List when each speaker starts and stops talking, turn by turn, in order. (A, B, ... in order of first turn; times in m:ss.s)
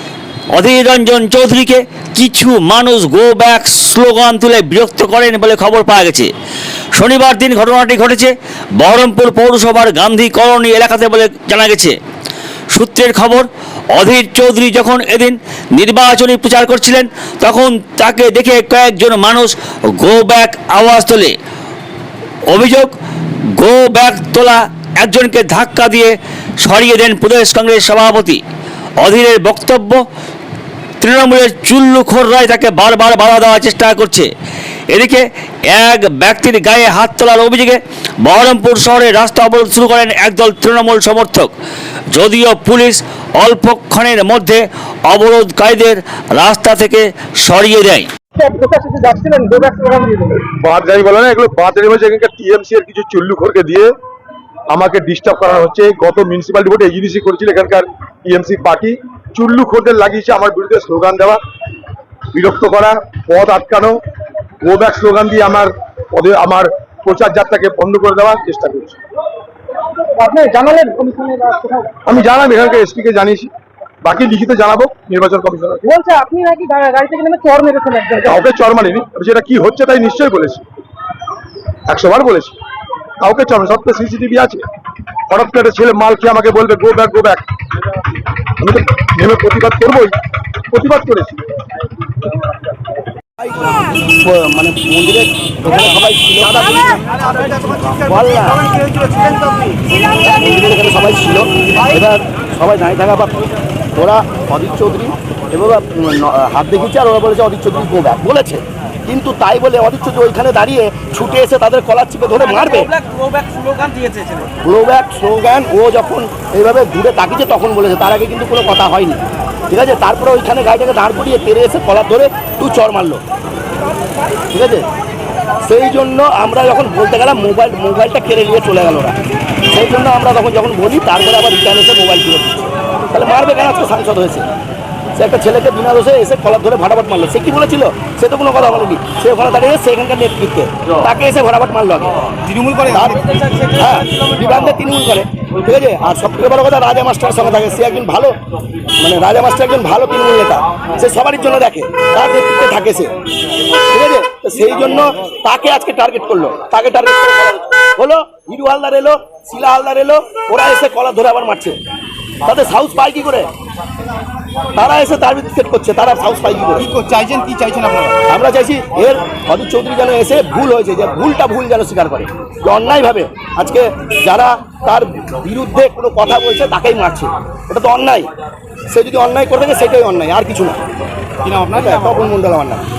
0:00.5-0:06.3 A
0:07.0-0:11.9 A
0:12.7-0:21.3 A
0:22.5-0:22.9 A
0:23.6-0:28.4 A
0:29.0-0:30.0 A
0:31.0-0:34.3 A
0:34.9-0:41.5 A
0:42.1-0:48.1 A
0:48.4-0:50.5 B
0:50.5-0:53.9 C
0:54.7-1:01.4 C
1:02.3-1:04.0 C
1:04.6-1:09.0 C
1:10.2-1:12.0 B
1:12.0-1:13.5 C
1:14.0-1:15.8 C
1:15.8-1:18.4 B
1:18.2-1:20.6 C
1:21.9-1:22.6 C
1:23.2-1:24.7 C
1:25.3-1:27.4 C
1:28.6-1:30.1 C
1:30.7-1:31.4 C
1:33.4-1:39.2 D
1:40.2-1:43.4 D
1:43.9-1:53.0 D
1:53.0-1:54.5 E
1:54.6-2:03.2 D
2:04.5-2:04.8 D
2:05.6-2:09.1 D
2:09.7-2:14.4 D
2:15.2-2:22.1 D
2:22.4-2:23.6 E
2:22.8-2:28.3 D
2:29.0-2:33.1 D
2:33.9-2:41.8 D
2:42.4-2:43.5 D
2:44.8-2:46.9 D
2:46.8-2:48.2 E
2:48.3-2:58.3 D
2:58.9-3:00.8 D
3:01.4-3:02.2 E
3:01.7-3:02.8 D